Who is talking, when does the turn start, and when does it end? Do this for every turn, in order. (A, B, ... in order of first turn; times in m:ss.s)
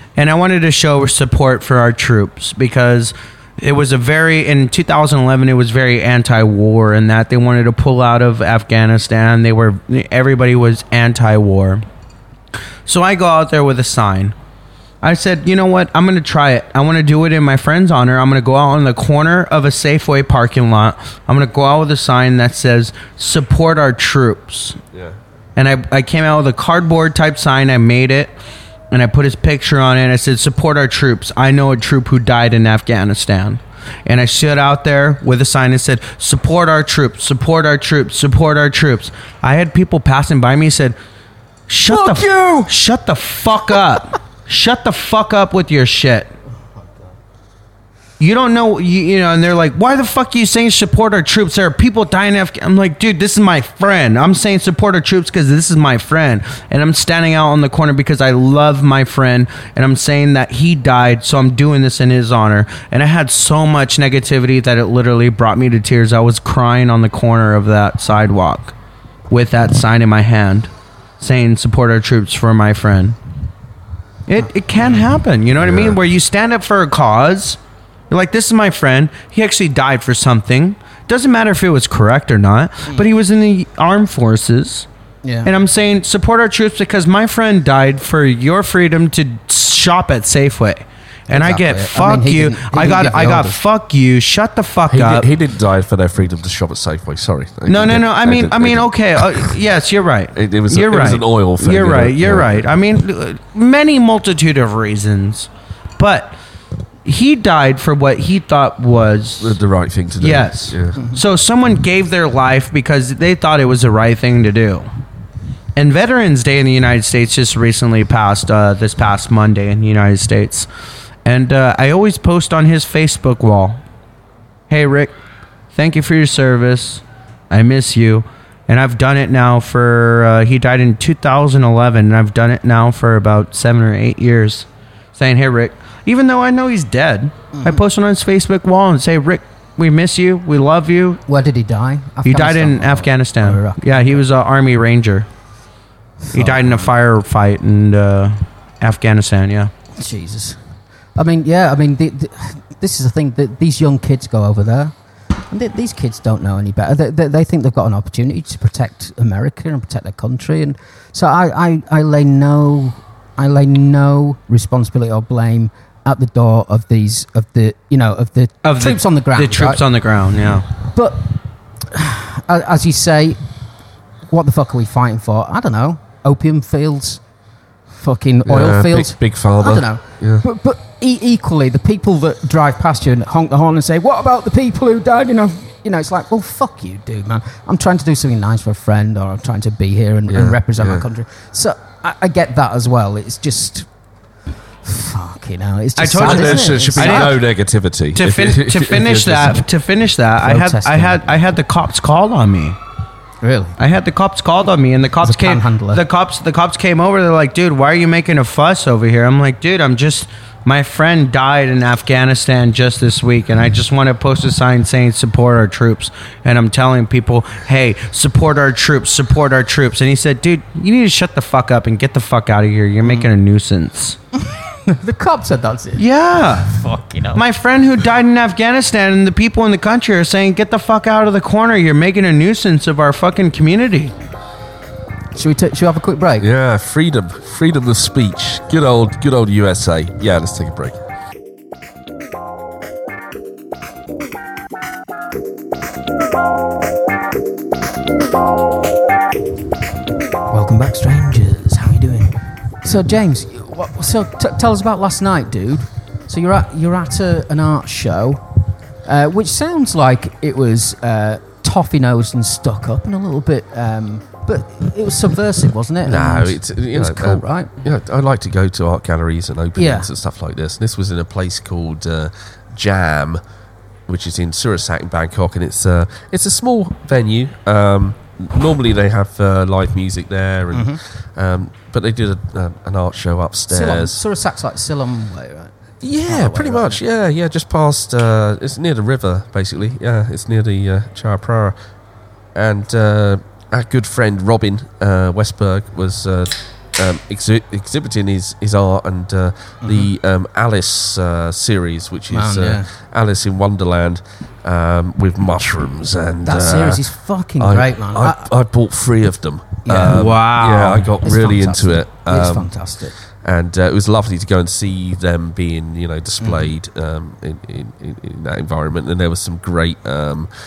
0:00.2-0:11.8 A
0:12.8-0:14.3 A
0:15.0-0:24.8 A
0:25.6-0:28.3 A
0:28.9-0:41.0 A
0:41.7-0:46.3 A
0:41.9-0:42.7 B
0:46.8-0:47.1 C
0:48.2-1:08.7 A
1:09.3-1:13.2 A
1:14.3-1:17.6 A
1:15.6-1:16.0 B
1:18.1-1:24.8 A
1:25.2-1:25.5 C
1:25.4-1:35.3 A
1:31.3-1:33.6 C
1:34.9-1:39.5 B
1:37.7-1:46.4 A
1:40.4-1:42.7 B
1:47.0-1:49.6 A
1:49.4-1:51.0 B
1:50.2-1:54.8 A
1:55.8-2:00.7 A
2:01.2-2:03.8 A
2:04.7-2:05.1 A
2:05.7-2:21.2 A
2:17.5-2:17.8 C
2:21.3-2:24.2 C
2:22.2-2:25.3 A
2:26.2-2:26.9 C
2:26.3-2:29.7 A
2:30.0-2:30.6 C
2:31.2-2:34.9 C
2:35.5-2:49.8 C
2:48.6-2:50.6 A
2:50.8-2:51.3 C
2:51.9-2:53.4 C
2:54.3-2:57.2 C
2:58.0-3:13.9 C
2:58.4-3:00.4 B
3:10.3-3:11.1 B
3:14.8-3:17.3 C
3:16.0-3:17.4 A
3:16.2-3:19.6 B
3:18.1-3:22.8 A
3:20.4-3:21.5 C
3:23.4-3:23.8 C
3:23.8-3:44.2 A
3:25.2-3:26.0 C
3:43.0-3:43.3 C
3:44.4-3:46.0 C
3:46.0-3:46.8 A
3:46.6-3:47.4 C
3:47.3-3:54.1 A
3:55.3-3:56.5 C
3:56.4-4:01.0 B
4:10.5-4:18.4 C
4:19.0-4:27.7 C
4:26.0-4:33.4 B
4:29.8-4:30.1 C
4:34.1-4:44.2 B
4:40.7-4:41.0 C
4:43.7-4:45.7 C
4:46.0-4:51.8 B
4:46.2-4:47.0 C
4:52.5-5:07.0 B
4:59.8-5:00.1 C
5:02.3-5:02.9 C
5:06.4-5:08.5 C
5:07.6-5:12.7 B
5:09.8-5:10.2 C
5:09.9-5:11.1 A
5:11.2-5:13.2 C
5:13.4-5:20.5 B
5:16.4-5:16.7 C